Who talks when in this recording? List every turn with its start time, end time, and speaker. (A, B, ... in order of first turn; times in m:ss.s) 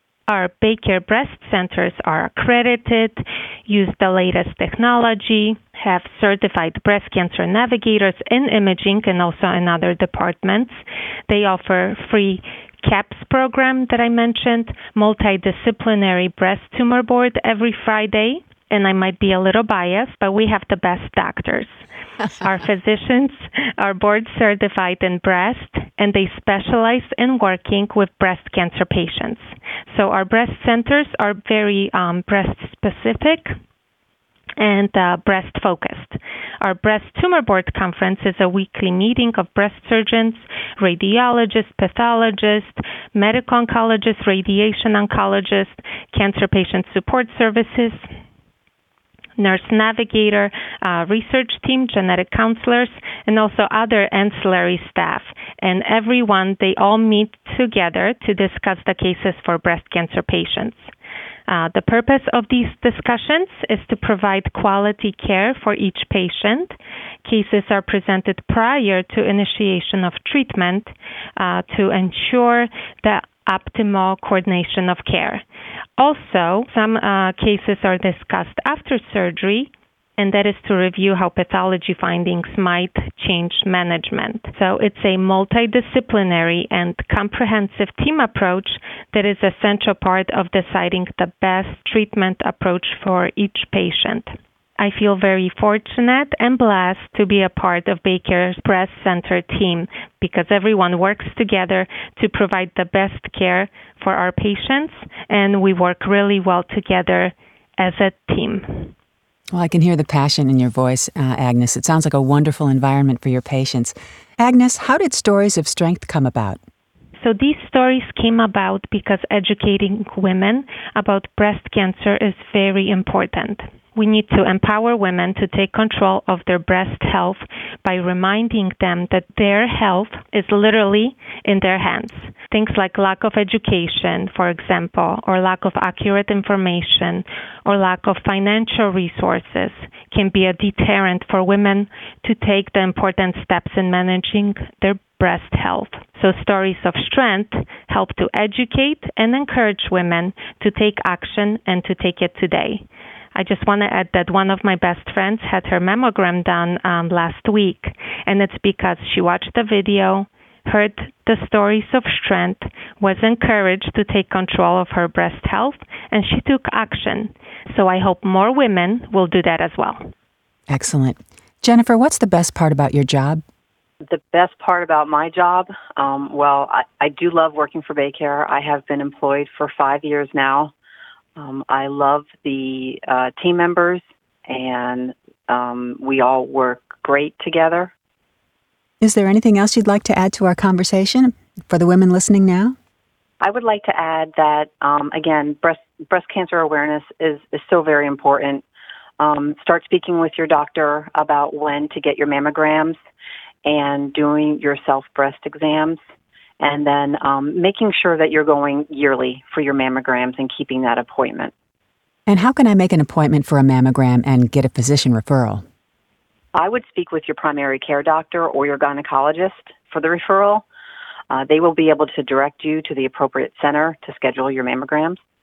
0:00.3-0:33.6 A
0:34.6-0:48.0 A
0:49.4-1:00.9 A
1:01.5-1:15.4 A
1:16.0-1:48.9 A
1:49.5-1:56.6 B
1:57.2-2:50.0 A
2:50.7-2:53.4 B
2:54.0-3:00.7 C
3:01.4-3:07.9 C
3:09.0-3:12.8 B
3:13.4-3:18.6 C
3:19.2-3:23.0 C
3:23.6-3:26.0 C
3:26.6-3:31.5 C
3:32.2-3:35.6 B
3:36.5-3:40.6 C
3:41.3-3:45.2 C